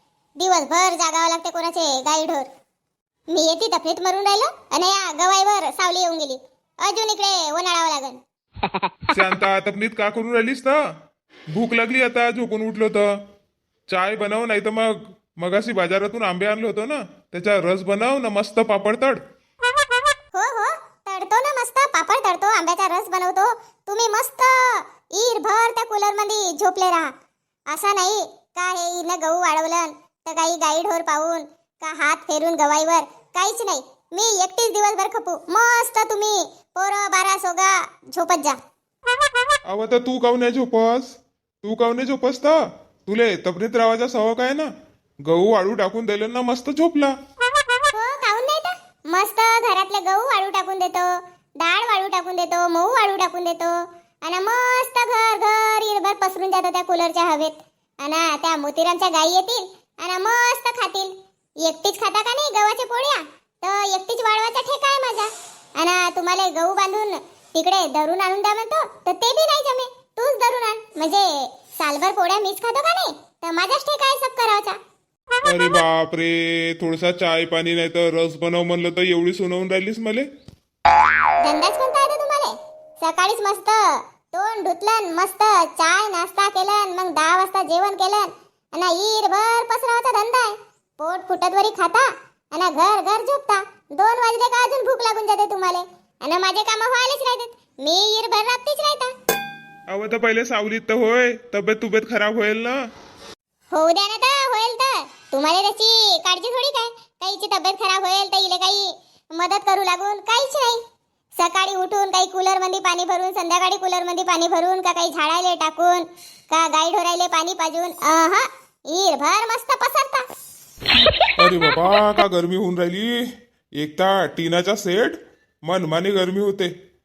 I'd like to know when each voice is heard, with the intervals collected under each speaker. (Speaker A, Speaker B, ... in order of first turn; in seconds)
Speaker A: 0.4-2.5, 3.3-8.2, 20.3-27.1, 27.7-38.6, 47.9-61.1, 61.6-74.8, 81.4-99.1, 103.7-110.8, 111.4-120.2
Speaker B: 9.1-10.8, 11.5-13.1, 13.9-19.2, 39.7-44.7, 45.2-47.1, 75.4-80.3, 99.9-102.8, 121.4-126.7